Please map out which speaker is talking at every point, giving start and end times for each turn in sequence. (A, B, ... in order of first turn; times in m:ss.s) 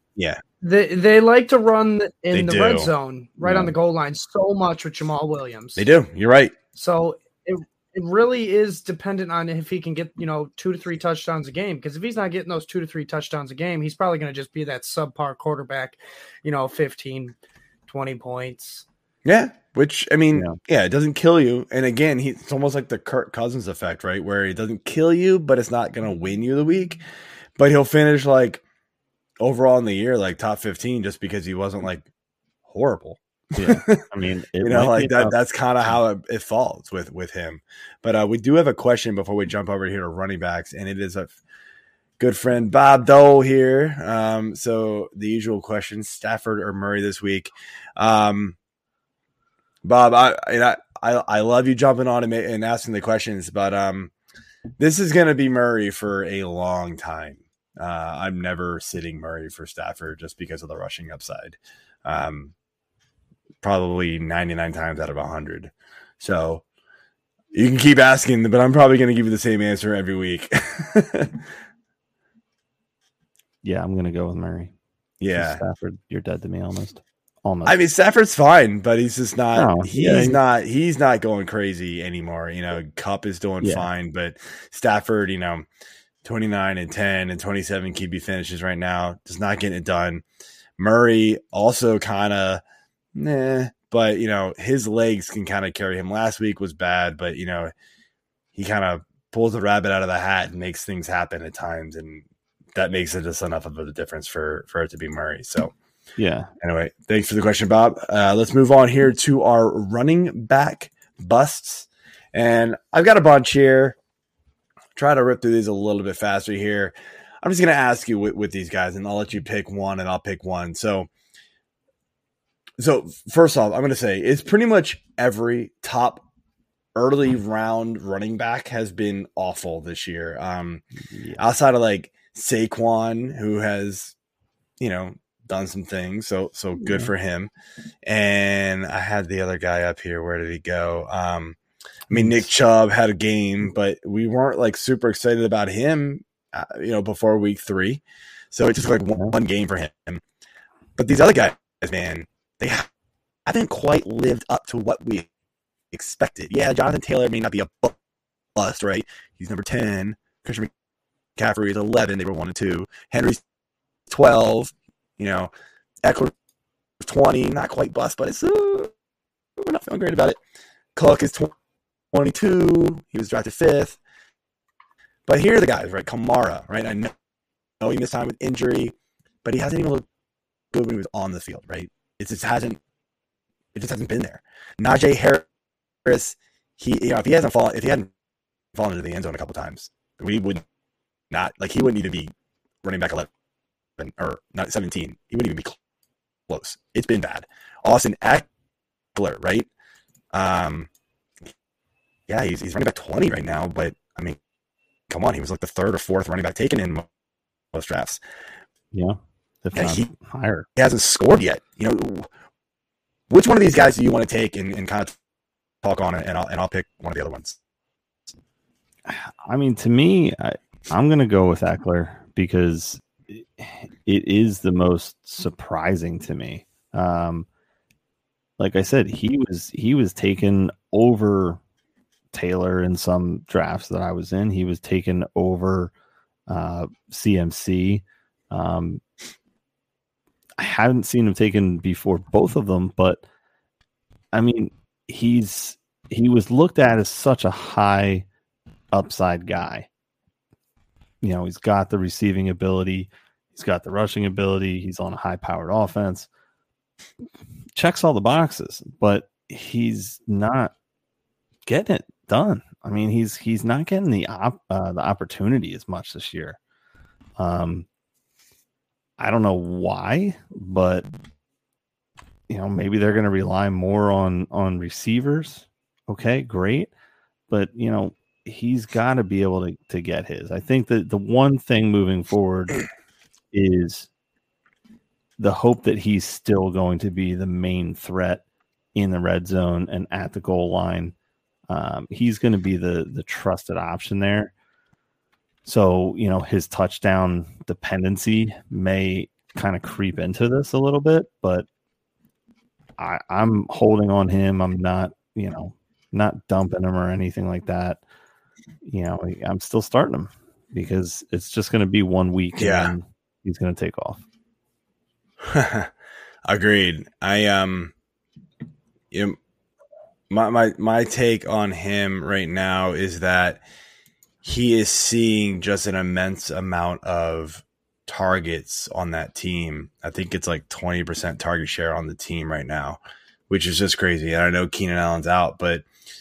0:00.2-0:00.4 A
0:00.6-0:05.9 B
0:02.3-0:02.9 A
0:03.4-0:03.7 C
0:05.8-0:06.6 A
0:06.8-0:17.4 B
0:17.9-0:18.9 B
0:19.2-0:27.0 A
0:27.6-0:28.6 A
0:29.4-0:32.1 A
0:32.7-0:34.0 A
0:33.6-0:35.4 C
0:34.6-0:41.3 A
0:42.2-0:48.6 A
0:49.8-0:54.1 A
0:54.8-1:02.5 A
1:03.6-1:06.6 A
1:07.5-1:11.4 A
1:13.6-1:14.7 C
1:15.2-1:15.6 A
1:15.3-1:17.8 C
1:17.6-1:25.7 A
1:19.6-1:20.4 C
1:23.6-1:23.9 C
1:26.2-1:30.2 A
1:30.8-1:32.6 A
1:33.2-1:37.7 A
1:38.6-1:45.7 A
1:46.2-1:46.5 C
1:46.6-1:54.0 A
1:55.0-2:01.1 A
2:02.8-2:06.2 A
2:07.0-2:10.8 A
2:11.0-2:11.4 C
2:11.4-2:14.2 A
2:14.8-2:17.5 A
2:16.8-2:17.1 C
2:18.0-2:21.6 A
2:22.1-2:30.2 A
2:22.1-2:22.4 C
2:31.0-2:32.9 A
2:33.5-2:35.3 A
2:35.9-2:38.0 A
2:38.6-2:40.7 A
2:41.4-2:43.4 A
2:44.1-2:45.5 A
2:46.0-2:46.3 A
2:47.0-2:48.9 A
2:49.6-2:50.4 A
2:51.0-2:51.5 A
2:52.1-2:54.0 A
2:55.3-2:57.1 A
2:57.8-3:00.1 A
3:00.7-3:02.8 A
3:03.7-3:05.5 A
3:06.0-3:08.1 A
3:08.8-3:10.6 A
3:11.3-3:12.3 A
3:12.8-3:13.3 A
3:14.0-3:15.8 A
3:16.5-3:18.5 A
3:19.2-3:19.7 A
3:20.3-3:20.9 A
3:22.3-3:24.4 A
3:25.1-3:27.1 A
3:27.7-3:28.2 A
3:28.9-3:30.7 C
3:29.8-3:30.1 A
3:30.8-3:32.3 A
3:33.3-3:35.2 A
3:35.8-3:37.6 A
3:39.1-3:47.5 C
3:48.6-3:51.6 C
3:52.3-3:55.9 C
3:56.5-3:59.0 C
4:00.6-4:03.2 C
4:04.3-4:08.3 C
4:08.9-4:09.9 C
4:11.2-4:16.3 C
4:17.8-4:20.7 C
4:21.7-4:26.6 C
4:27.4-4:27.9 C
4:29.2-4:31.1 C
4:32.5-4:36.9 C
4:37.5-4:42.8 C
4:43.5-4:44.1 C
4:45.4-4:48.4 C
4:49.0-4:51.1 C
4:51.7-4:54.5 C
4:55.6-5:01.7 C
5:03.0-5:08.0 C
5:08.8-5:14.2 C
5:12.6-5:12.9 A
5:15.4-5:15.9 A
5:16.4-5:17.9 A
5:19.1-5:19.4 A
5:20.3-5:23.6 A
5:24.4-5:35.8 A